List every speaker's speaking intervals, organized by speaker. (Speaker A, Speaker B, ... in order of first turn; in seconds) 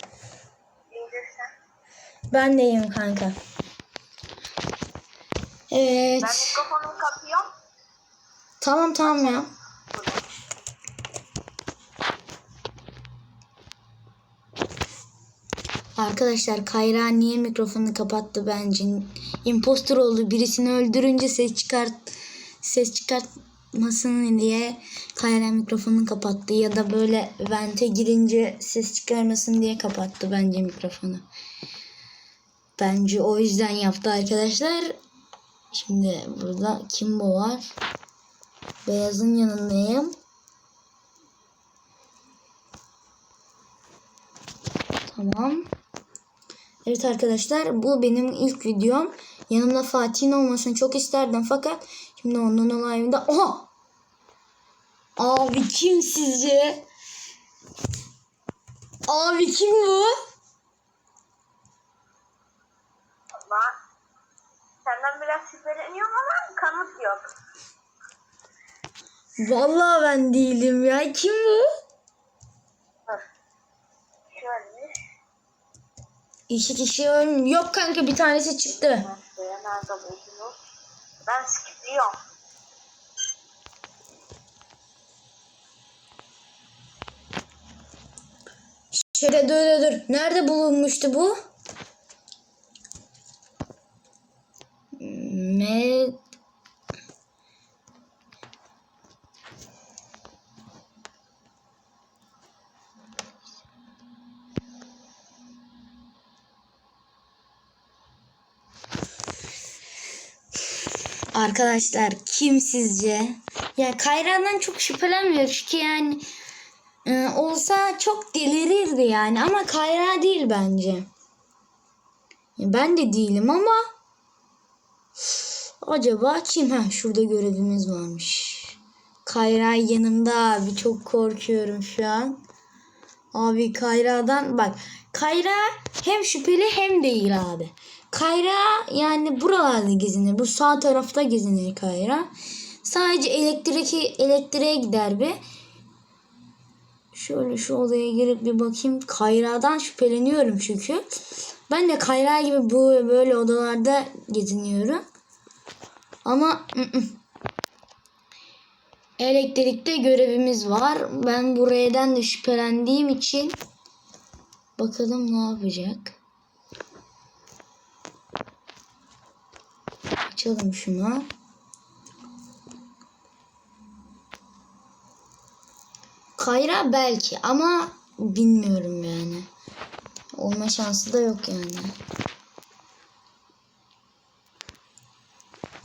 Speaker A: 0.9-1.5, 6.2-7.5, 9.0-10.2, 63.4-63.7, 64.8-67.3, 74.3-74.9, 78.8-80.6, 81.2-82.2
Speaker B: 2.3-3.3, 5.7-6.6, 8.6-9.5, 16.0-22.1, 22.6-31.2, 32.8-35.0, 35.7-37.7, 38.8-40.1, 45.1-45.7, 46.9-53.7, 55.2-56.8, 59.1-60.1, 69.4-71.7, 76.5-79.1, 88.9-91.3, 95.0-96.2, 111.3-116.2, 117.0-121.1, 122.6-123.8, 125.8-132.4, 133.3-142.3, 142.8-145.4, 147.1-151.0, 151.7-155.0, 156.2-157.2, 159.2-163.6, 164.8-166.1, 170.2-171.3, 176.4-179.5, 180.3-181.9